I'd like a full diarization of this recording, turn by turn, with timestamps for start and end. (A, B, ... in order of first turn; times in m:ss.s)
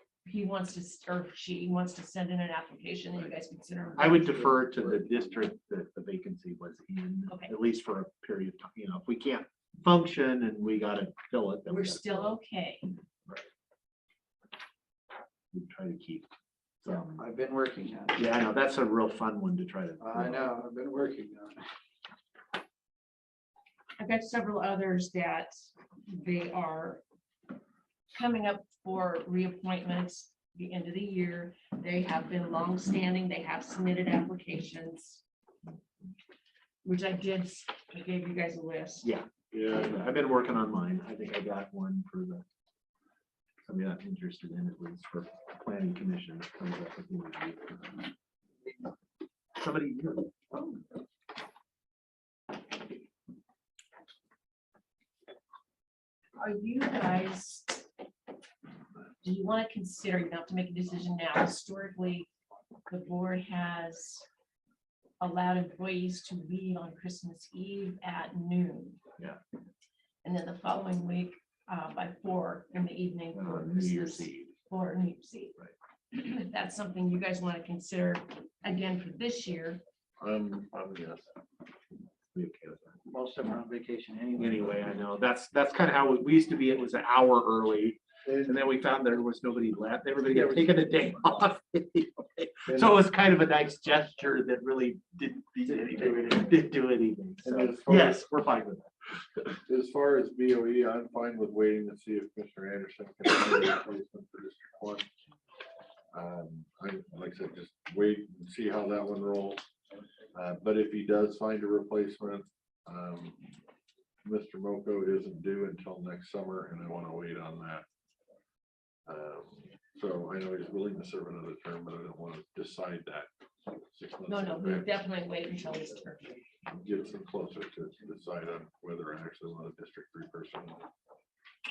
0:00.2-0:04.6 A
0:04.0-0:12.2 B
0:11.7-0:12.9 A
0:15.5-0:16.3 B
0:16.8-0:17.2 B
0:17.0-0:18.3 C
0:18.2-0:20.5 B
0:20.0-0:21.6 C
0:24.0-0:25.5 A
0:26.0-0:27.0 A
0:28.1-0:35.2 A
0:36.8-0:39.1 A
0:39.0-0:42.4 B
0:39.5-0:40.0 D
0:43.6-0:48.0 B
0:49.6-0:50.3 B
0:56.4-0:57.9 A
0:59.2-1:02.3 A
1:02.9-1:04.2 A
1:05.2-1:09.0 A
1:10.2-1:15.6 A
1:13.3-1:14.5 B
1:16.1-1:19.8 A
1:20.2-1:21.3 D
1:22.3-1:23.0 B
1:23.1-1:24.8 C
1:24.4-1:38.9 B
1:30.3-1:30.8 D
1:32.7-1:33.0 D
1:35.7-1:36.1 D
1:37.4-1:38.2 D
1:39.7-1:45.1 D
1:46.1-1:49.6 D
1:50.3-1:53.4 D
1:54.2-1:57.8 D
1:59.0-2:03.3 D
2:03.9-2:04.9 D
2:04.3-2:06.4 A
2:06.7-2:10.9 D